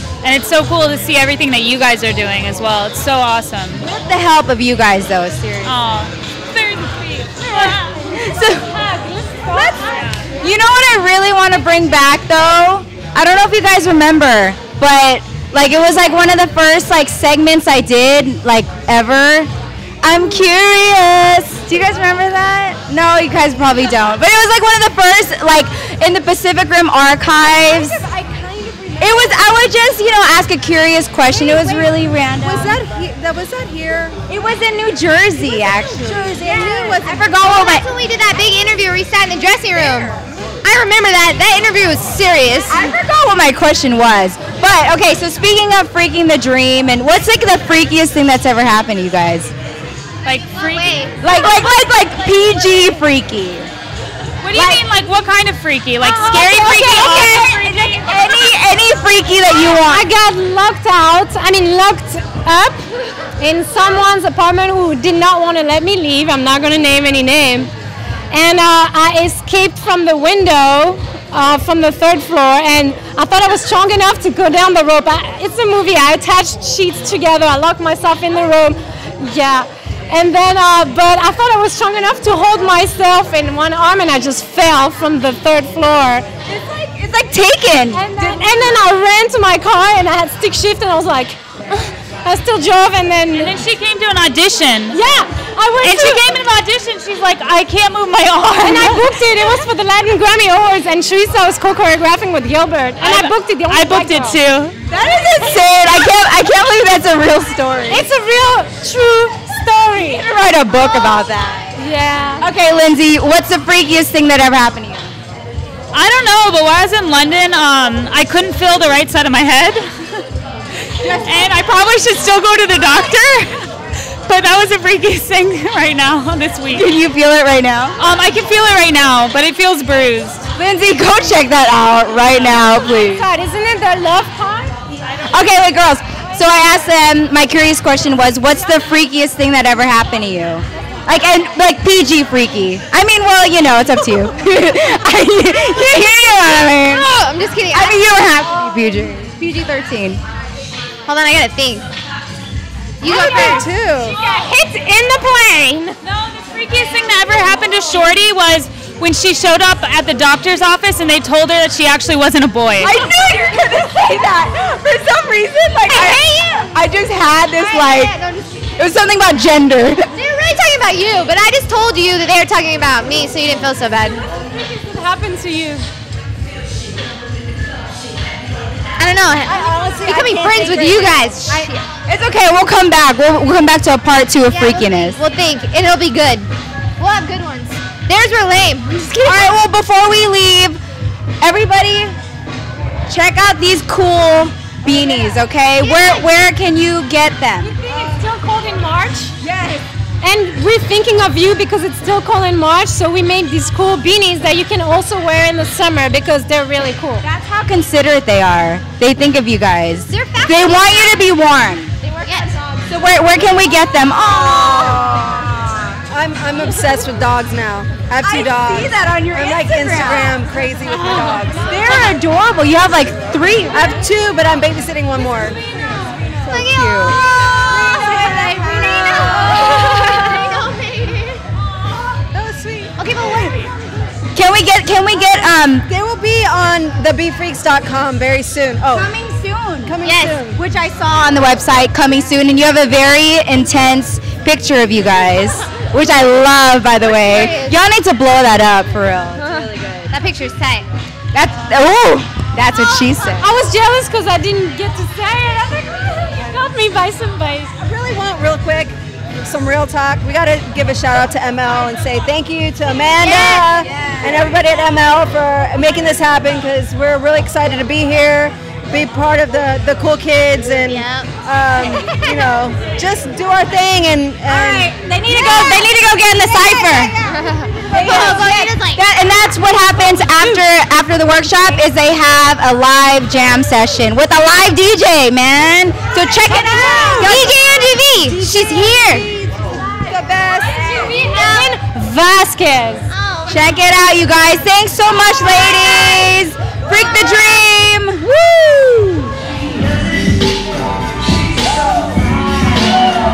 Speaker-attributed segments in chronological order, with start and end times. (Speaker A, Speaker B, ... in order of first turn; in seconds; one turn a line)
Speaker A: 0.2-3.8
Speaker B: 3.8-5.8
Speaker A: 5.6-7.9
Speaker B: 7.7-8.7
Speaker C: 7.7-10.2
Speaker B: 9.4-19.5
Speaker A: 9.9-10.3
Speaker B: 20.0-28.0
Speaker D: 27.5-29.3
Speaker B: 29.0-32.8
Speaker D: 31.3-34.2
Speaker B: 34.3-37.9
Speaker D: 35.4-36.6
Speaker E: 36.4-42.9
Speaker B: 42.7-49.5
Speaker A: 50.2-51.0
Speaker E: 50.5-51.8
Speaker B: 51.2-53.7
Speaker A: 54.4-57.9
Speaker B: 54.5-54.8
Speaker B: 56.0-60.1
Speaker C: 56.1-57.7
Speaker C: 59.6-62.8
Speaker C: 63.4-67.7
Speaker C: 68.3-86.3
Speaker B: 86.5-88.7
Speaker C: 87.9-93.6
Speaker A: 93.3-95.0
Speaker C: 94.9-96.4
Speaker A: 95.8-99.2
Speaker C: 98.6-104.4
Speaker A: 103.0-104.8
Speaker B: 104.9-108.1
Speaker C: 107.9-110.2
Speaker B: 109.9-111.8
Speaker C: 111.8-112.5
Speaker B: 112.4-115.1
Speaker A: 115.9-120.3
Speaker A: 121.0-123.7
Speaker A: 124.2-126.9
Speaker B: 126.7-128.0
Speaker A: 128.0-130.5
Speaker B: 130.6-133.3
Speaker C: 132.8-134.8
Speaker B: 135.3-147.1
Speaker E: 146.7-148.0
Speaker B: 147.7-150.2
Speaker E: 151.1-151.9
Speaker E: 153.0-153.7
Speaker D: 153.0-154.2
Speaker C: 154.1-156.0
Speaker A: 156.0-162.9
Speaker B: 162.8-168.2
Speaker E: 165.9-166.7
Speaker E: 167.5-168.7
Speaker B: 168.8-170.1
Speaker E: 170.1-174.2
Speaker C: 174.3-175.9
Speaker E: 179.0-181.8
Speaker D: 179.4-181.7
Speaker B: 182.1-185.2
Speaker E: 184.4-189.6
Speaker B: 189.2-190.8
Speaker B: 191.4-192.2
Speaker B: 193.1-197.7
Speaker E: 195.8-196.3
Speaker C: 197.6-199.3
Speaker D: 197.9-198.2
Speaker D: 199.4-199.8
Speaker C: 200.2-207.2
Speaker B: 207.2-211.9
Speaker E: 210.1-211.3
Speaker E: 212.0-212.6
Speaker B: 212.9-216.0
Speaker D: 214.5-215.1
Speaker D: 216.1-222.1
Speaker B: 218.2-223.9
Speaker D: 223.7-225.6
Speaker E: 225.8-231.4
Speaker B: 226.2-227.2
Speaker D: 227.5-230.7
Speaker B: 228.5-230.0
Speaker D: 232.3-232.9
Speaker E: 233.0-233.7
Speaker B: 234.3-235.9
Speaker D: 235.9-239.1
Speaker B: 238.9-250.1
Speaker D: 239.8-240.6
Speaker E: 240.0-240.4
Speaker E: 247.1-247.8
Speaker E: 249.4-250.8
Speaker B: 251.3-253.6
Speaker C: 253.3-257.8
Speaker D: 257.8-274.9
Speaker E: 263.2-263.8
Speaker B: 263.8-264.4
Speaker E: 270.8-271.3
Speaker E: 272.0-272.4
Speaker B: 274.5-277.1
Speaker E: 275.3-275.9
Speaker E: 276.5-279.0
Speaker D: 277.9-278.5
Speaker B: 277.9-287.8
Speaker D: 286.5-287.6
Speaker E: 286.5-289.3
Speaker D: 288.2-291.2
Speaker C: 290.6-293.1
Speaker E: 290.8-291.8
Speaker E: 293.1-293.8
Speaker B: 293.5-298.3
Speaker E: 295.4-296.4
Speaker E: 296.9-297.2
Speaker D: 298.4-299.3